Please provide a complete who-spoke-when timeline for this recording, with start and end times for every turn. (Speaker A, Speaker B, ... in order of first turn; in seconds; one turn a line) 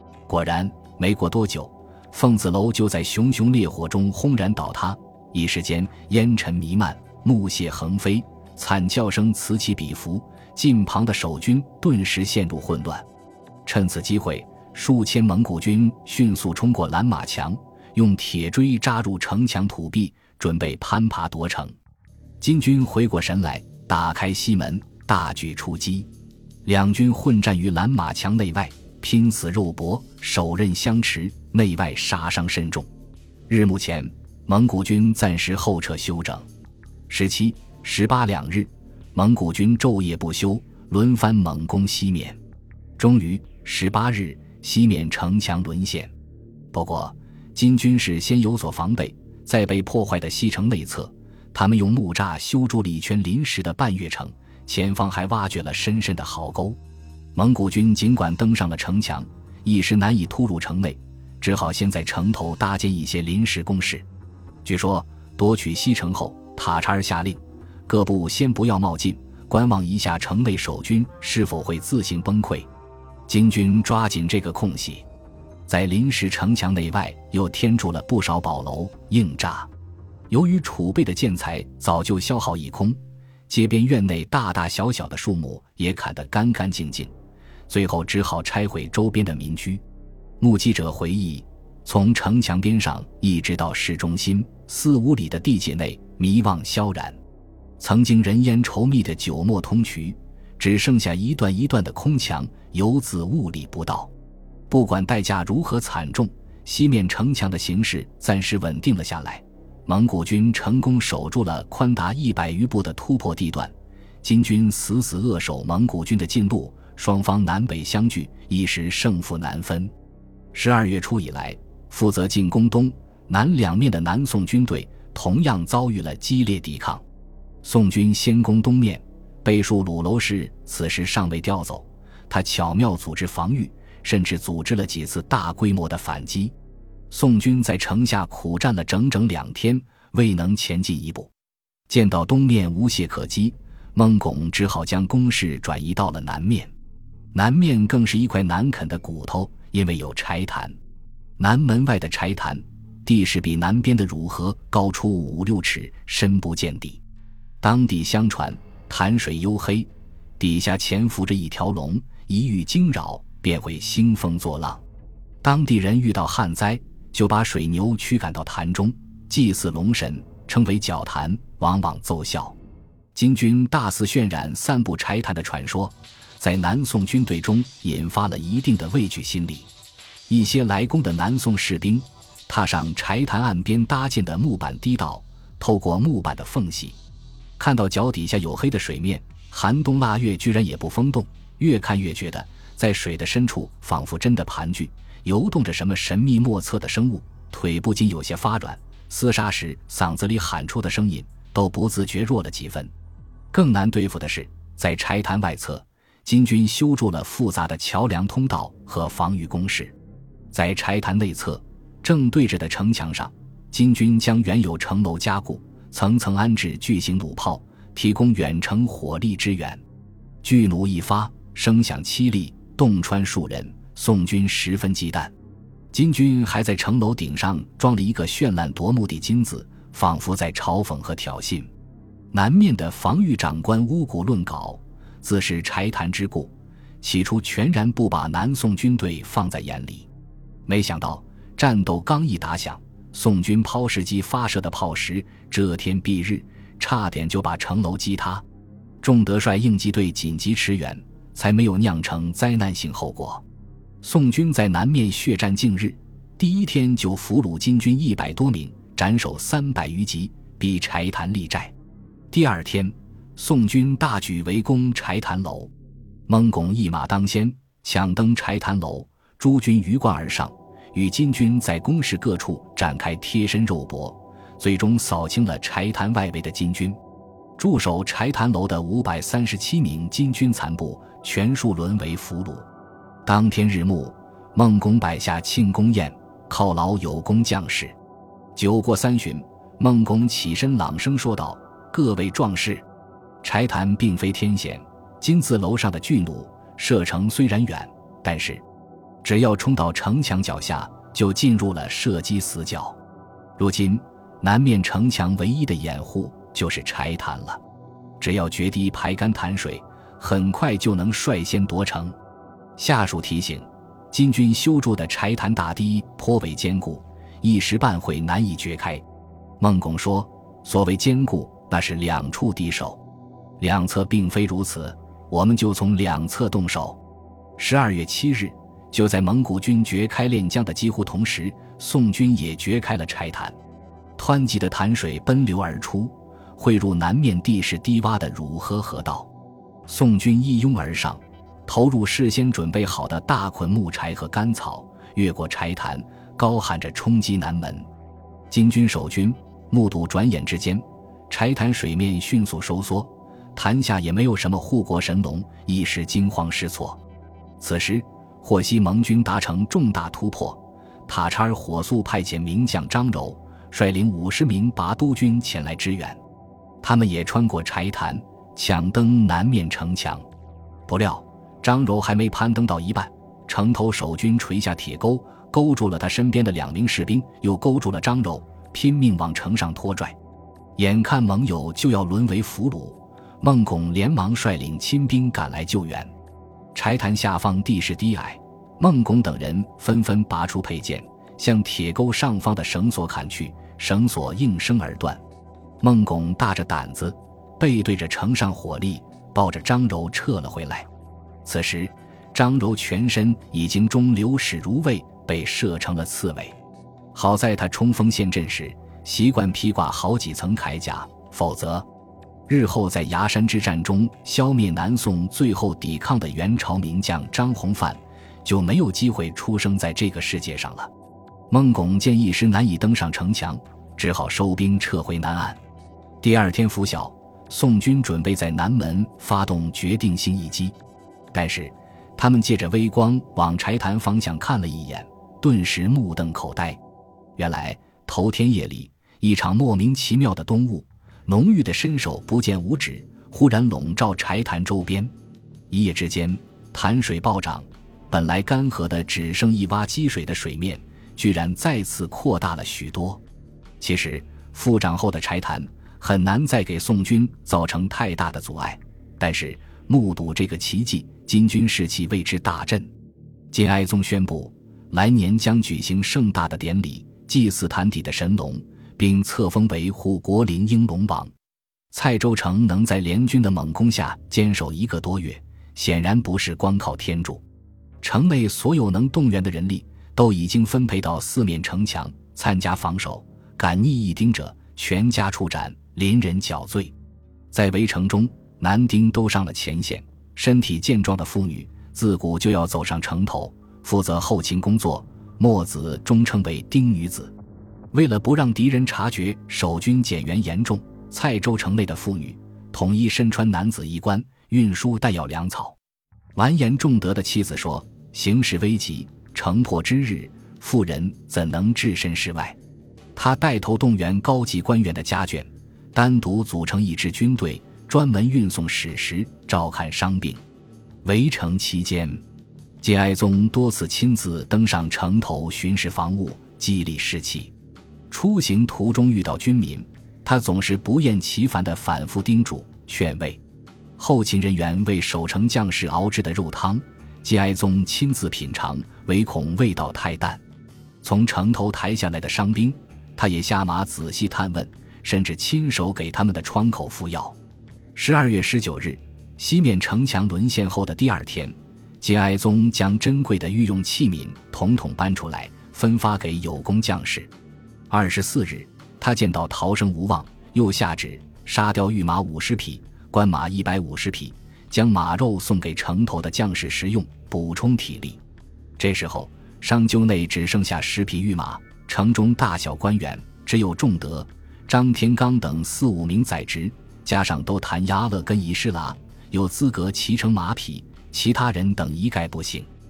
Speaker A: 0.3-13.1
Speaker A: 13.6-21.8
Speaker A: 22.4-26.1
Speaker A: 26.6-32.9
Speaker A: 33.5-36.5
Speaker A: 37.1-42.4
Speaker A: 43.0-46.1
Speaker A: 46.7-56.8
Speaker A: 57.3-64.0
Speaker A: 64.6-72.7
Speaker A: 73.3-75.0
Speaker A: 75.7-79.7
Speaker A: 80.3-87.1
Speaker A: 87.7-89.8
Speaker A: 90.4-97.2
Speaker A: 97.8-104.1
Speaker A: 104.7-119.9
Speaker A: 120.5-127.0
Speaker A: 127.6-136.5
Speaker A: 137.1-141.3
Speaker A: 141.9-146.7
Speaker A: 147.3-150.8
Speaker A: 151.4-157.0
Speaker A: 157.6-164.8
Speaker A: 165.4-172.6
Speaker A: 173.1-179.7
Speaker A: 180.3-187.0
Speaker A: 187.6-202.9
Speaker A: 203.5-209.9
Speaker A: 210.5-219.8
Speaker A: 220.4-225.3
Speaker A: 225.9-231.7
Speaker A: 232.3-240.1
Speaker A: 240.7-248.4
Speaker A: 249.0-253.4
Speaker A: 254.0-261.7
Speaker A: 262.3-265.7
Speaker A: 266.3-277.0
Speaker A: 277.6-282.7
Speaker A: 283.2-287.9
Speaker A: 288.5-292.9
Speaker A: 293.4-298.6
Speaker A: 299.2-303.0
Speaker A: 303.6-307.6
Speaker A: 308.2-312.1
Speaker A: 312.8-319.0
Speaker A: 319.6-323.0
Speaker A: 323.6-327.0
Speaker A: 327.6-333.6
Speaker A: 334.2-339.3
Speaker A: 339.9-347.9
Speaker A: 348.5-357.0
Speaker A: 357.6-366.2
Speaker A: 366.8-370.3
Speaker A: 370.9-380.1
Speaker A: 380.8-386.1
Speaker A: 386.7-395.2
Speaker A: 395.8-400.9
Speaker A: 401.4-406.6
Speaker A: 407.1-411.9
Speaker A: 412.5-420.9
Speaker A: 421.5-425.6
Speaker A: 426.2-430.8
Speaker A: 431.3-436.8
Speaker A: 437.4-445.1
Speaker A: 445.7-453.2
Speaker A: 453.8-462.9
Speaker A: 463.5-471.3
Speaker A: 471.9-477.4
Speaker A: 478.0-486.9
Speaker A: 487.5-497.3
Speaker A: 497.9-505.8
Speaker A: 506.4-512.6
Speaker A: 513.1-520.4
Speaker A: 521.0-522.2
Speaker A: 522.8-527.5
Speaker A: 528.1-533.4
Speaker A: 534.0-540.4
Speaker A: 541.0-547.4
Speaker A: 547.9-557.3
Speaker A: 557.9-568.2
Speaker A: 568.8-582.7